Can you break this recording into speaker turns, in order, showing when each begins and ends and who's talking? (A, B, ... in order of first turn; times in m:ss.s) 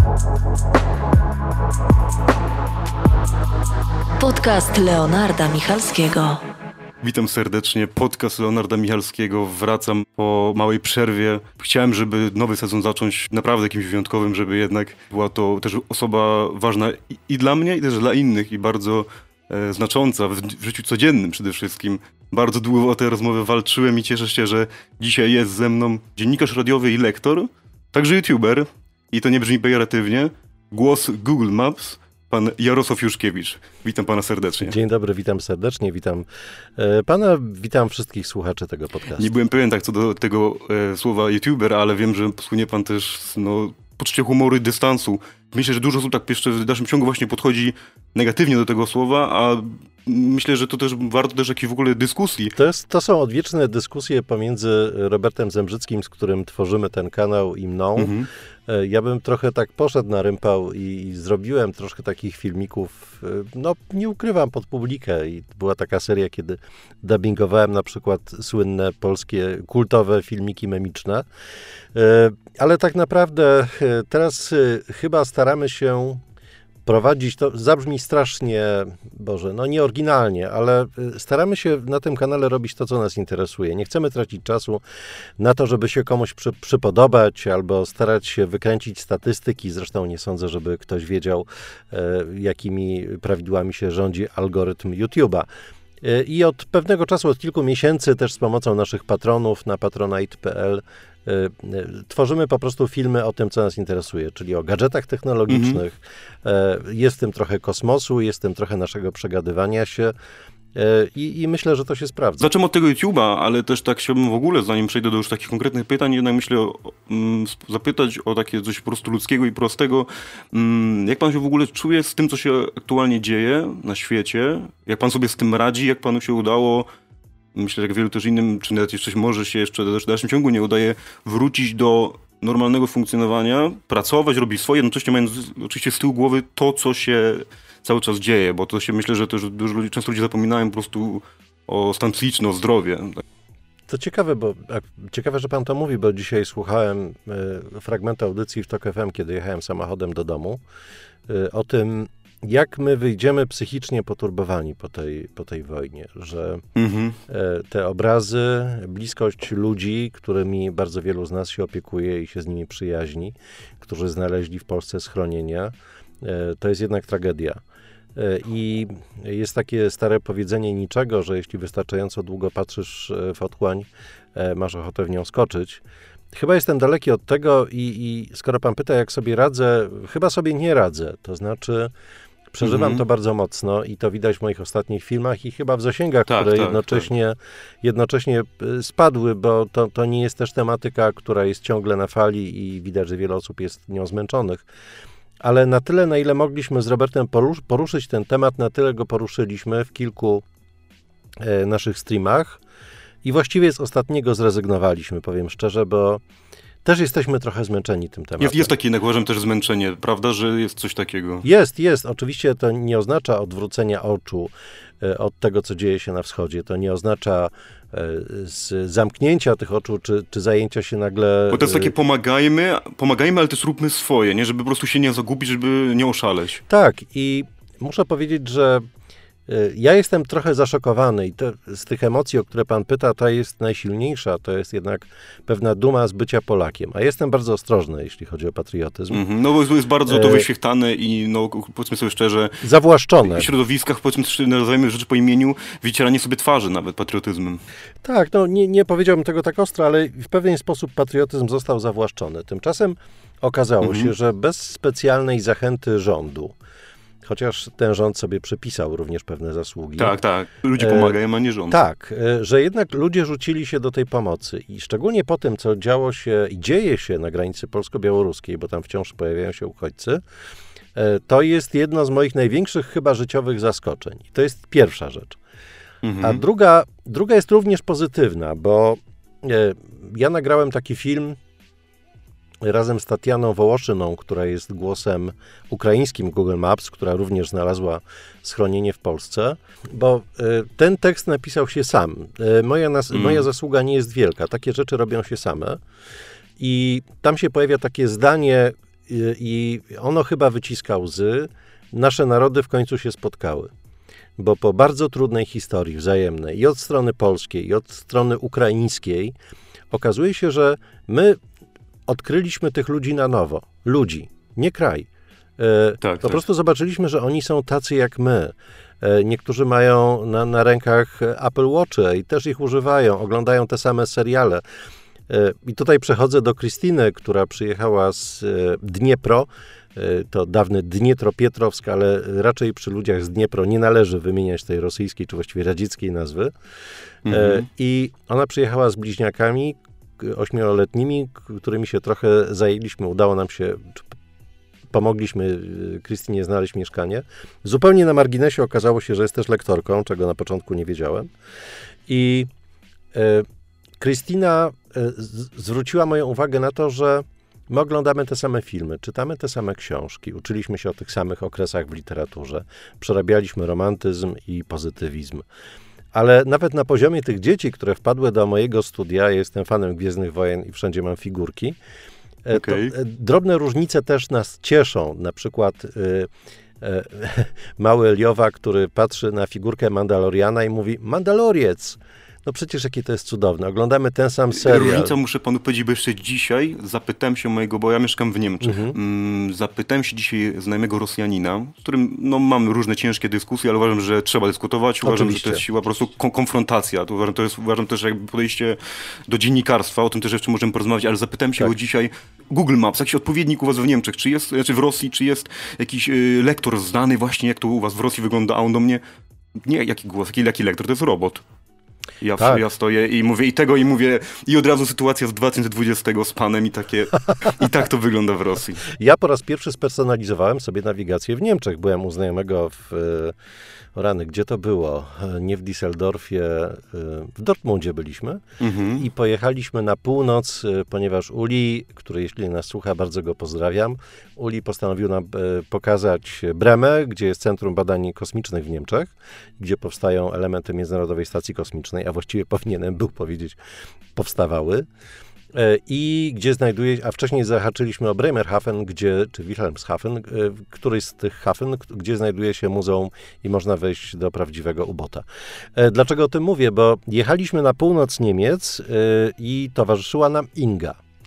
0:04.2-0:06.4 A
0:07.0-0:34.8 B
0:34.6-0:36.3 C
0:36.8-0:39.3 C
0:39.2-0:52.6 B
0:52.6-0:58.1 C
0:58.0-0:58.3 B
0:58.7-1:11.3 C
1:11.9-1:16.2 C
1:16.9-1:24.8 C
1:25.4-1:35.5 C
1:36.0-1:50.1 C
1:45.5-1:45.8 B
1:50.8-1:52.5 C
1:52.4-2:06.9 B
2:07.5-2:23.2 B
2:23.9-2:30.6 C
2:31.3-2:36.6 C
2:36.8-2:37.2 B
2:37.3-2:47.6 C
2:48.2-2:55.8 C
2:56.3-3:01.9 C
3:02.5-3:14.6 C
3:02.6-3:03.0 B
3:06.3-3:07.1 B
3:15.4-3:20.4 C
3:21.4-3:22.6 C
3:23.2-3:26.2 C
3:26.8-3:28.7 C
3:28.4-3:31.4 B
3:31.4-3:41.9 C
3:41.5-3:46.6 B
3:46.7-3:48.8 C
3:49.5-3:59.2 C
3:59.1-4:02.6 B
4:00.1-4:00.5 C
4:02.6-4:03.5 C
4:03.2-4:07.6 B
4:08.0-4:16.5 C
4:13.8-4:14.1 B
4:17.2-4:20.2 C
4:20.0-4:21.8 B
4:20.8-4:21.2 C
4:21.7-4:30.2 C
4:31.0-4:35.4 C
4:36.0-4:36.4 B
4:36.2-4:41.4 C
4:42.6-4:55.8 C
4:53.1-4:53.5 B
4:56.6-5:03.7 C
5:04.4-5:09.3 C
5:09.9-5:11.4 C
5:12.1-5:15.1 C
5:15.6-5:24.6 C
5:16.0-5:16.4 B
5:25.3-5:36.5 C
5:37.2-5:37.7 B
5:37.3-5:44.0 C
5:44.9-5:51.3 C
5:52.1-5:52.5 C
5:53.1-5:53.5 C
5:54.0-6:05.4 C
6:06.1-6:11.8 C
6:12.5-6:16.3 C
6:12.5-6:12.9 B
6:16.8-6:25.2 C
6:24.5-6:49.0 B
6:28.6-6:29.0 C
6:35.0-6:35.6 C
6:49.6-6:51.4 B
6:52.2-6:58.8 B
6:52.4-6:52.6 C
6:58.9-7:03.4 C
7:04.0-7:23.6 C
7:08.6-7:09.0 B
7:24.2-7:24.9 C
7:25.5-7:41.0 C